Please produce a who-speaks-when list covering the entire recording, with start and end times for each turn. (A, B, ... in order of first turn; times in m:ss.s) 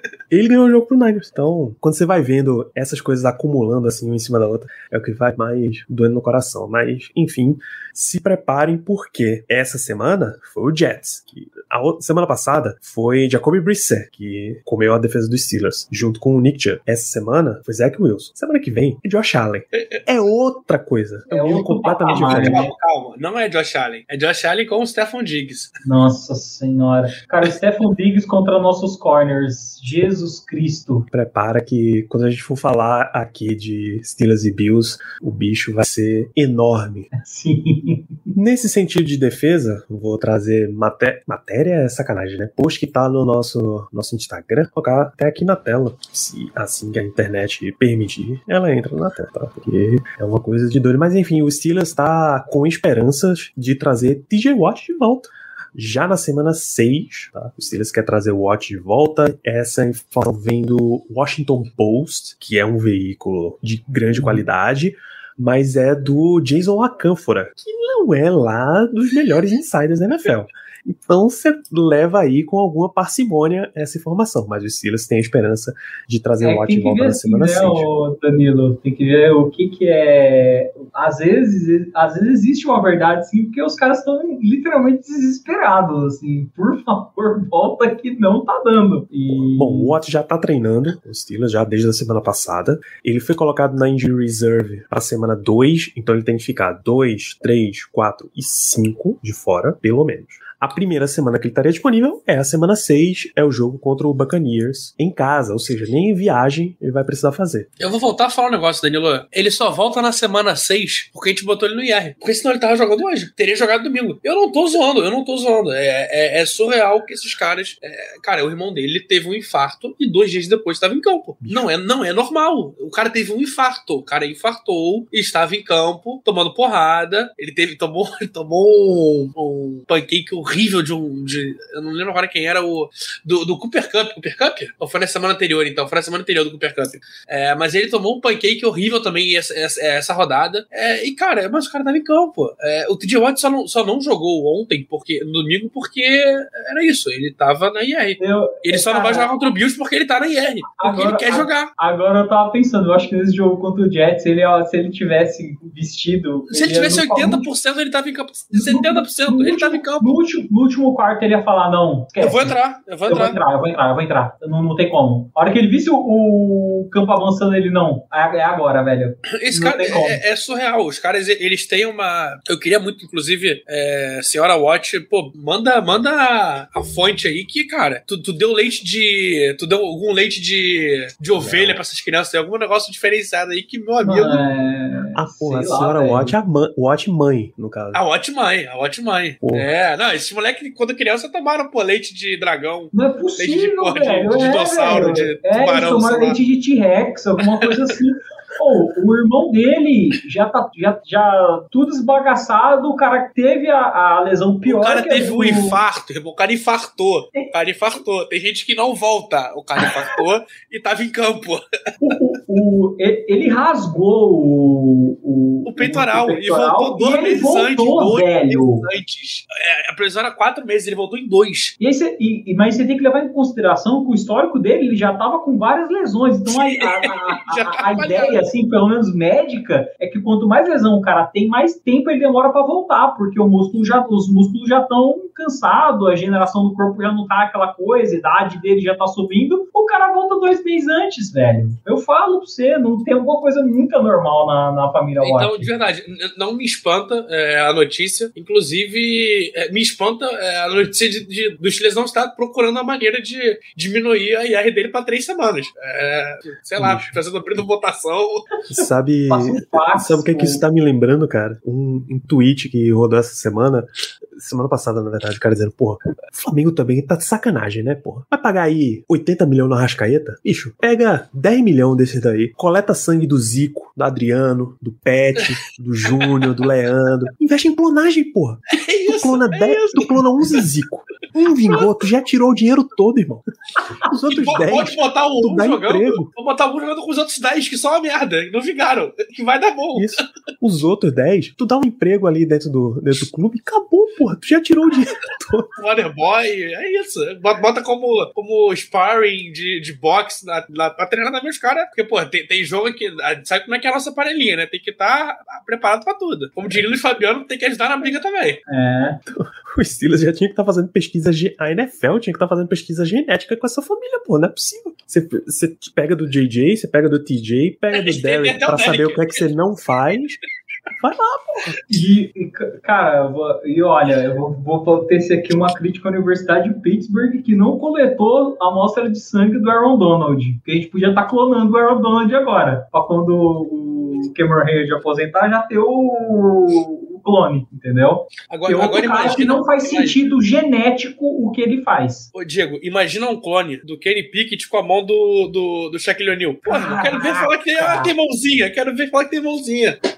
0:00.3-0:22.7 A
0:21.3-0:22.7 B
0:22.1-0:25.7 C
0:25.8-0:31.1 B
0:31.1-0:37.1 A
0:37.1-0:38.3 B
0:38.3-1:17.9 A
1:04.1-1:04.4 B
1:16.4-1:29.9 B
1:29.3-1:47.7 A
1:47.8-2:31.7 C
2:01.4-2:01.7 A
2:28.2-2:29.3 B
2:30.7-2:37.4 B
2:36.5-2:40.1 C
2:38.5-2:42.6 B
2:42.2-2:43.4 C
2:43.1-2:50.2 B
2:49.3-3:04.4 C
3:01.4-3:01.8 A
3:04.0-3:06.3 B
3:05.1-3:08.0 A
3:07.9-3:16.4 C
3:09.4-3:09.7 A
3:12.9-3:25.8 B
3:17.4-3:17.9 C
3:24.6-3:31.6 C
3:29.8-3:30.2 B
3:32.0-3:38.9 B
3:35.6-3:41.8 C
3:41.8-4:05.7 B
3:46.8-3:48.4 C
4:05.2-4:18.4 C
4:16.8-4:17.2 A
4:18.7-4:43.4 A
4:19.3-4:20.6 B
4:36.2-4:36.4 C
4:38.7-4:40.6 C
4:41.7-4:41.9 C
4:44.0-4:46.3 A
4:44.3-4:50.2 C
4:49.9-4:55.7 A
4:55.8-5:08.6 C
5:08.7-5:09.2 B
5:09.3-5:20.4 A
5:17.9-5:19.4 C
5:21.0-5:21.8 A
5:21.9-5:42.3 B
5:38.5-5:40.2 C
5:42.3-5:50.0 C
5:46.6-5:48.1 B